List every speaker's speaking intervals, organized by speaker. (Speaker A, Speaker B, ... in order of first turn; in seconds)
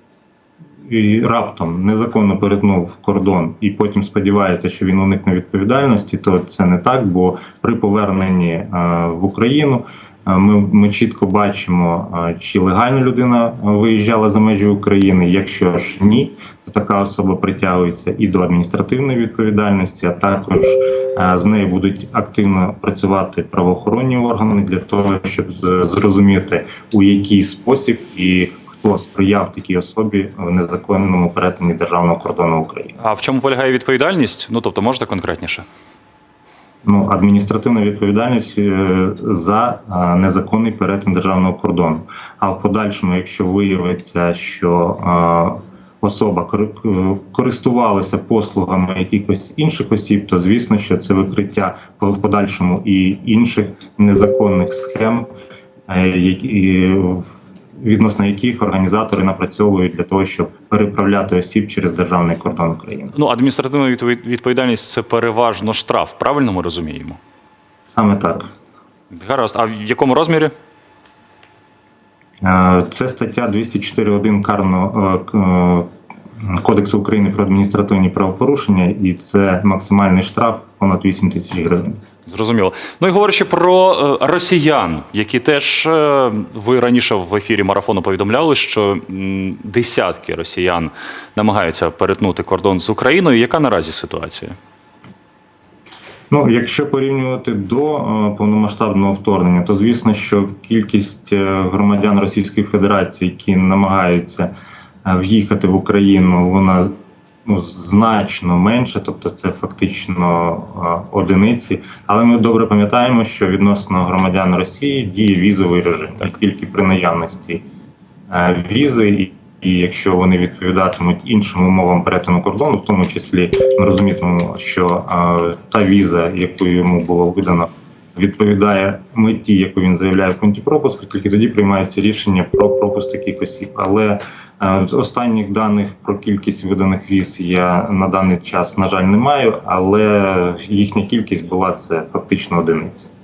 Speaker A: 0.8-33.0, 36.8-55.3, 55.9-63.1, 67.9-68.5, 72.4-82.0, 96.3-104.5, 105.0-106.9, 107.5-117.6, 118.3-143.1
Speaker B: 33.0-35.6, 63.1-67.2, 69.1-70.5, 82.3-94.5